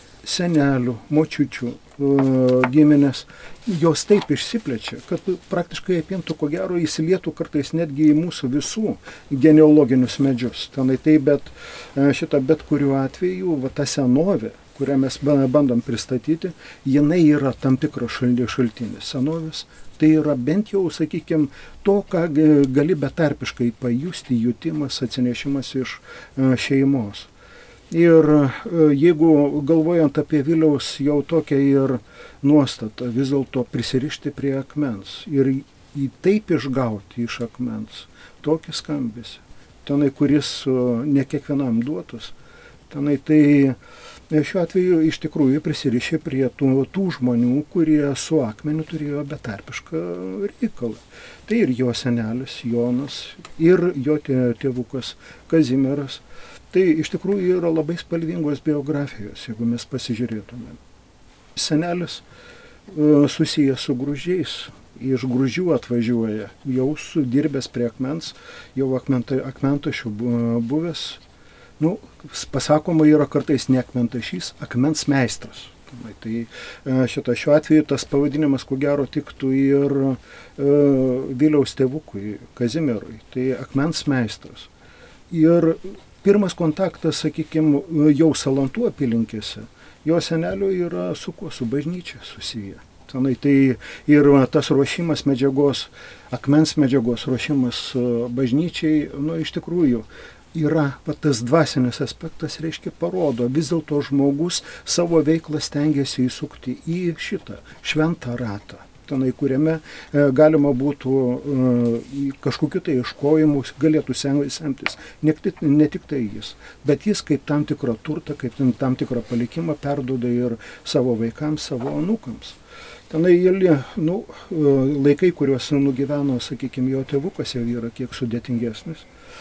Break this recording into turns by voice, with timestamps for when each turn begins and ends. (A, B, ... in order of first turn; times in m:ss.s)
0:00.2-0:27.3 A
0:27.9-0:42.3 A
0:42.9-0:43.8 A
0:44.3-1:00.8 A
1:01.5-1:02.2 A
1:02.9-1:11.2 A
1:11.8-1:24.7 A
1:25.3-2:02.6 A
2:03.1-2:09.1 A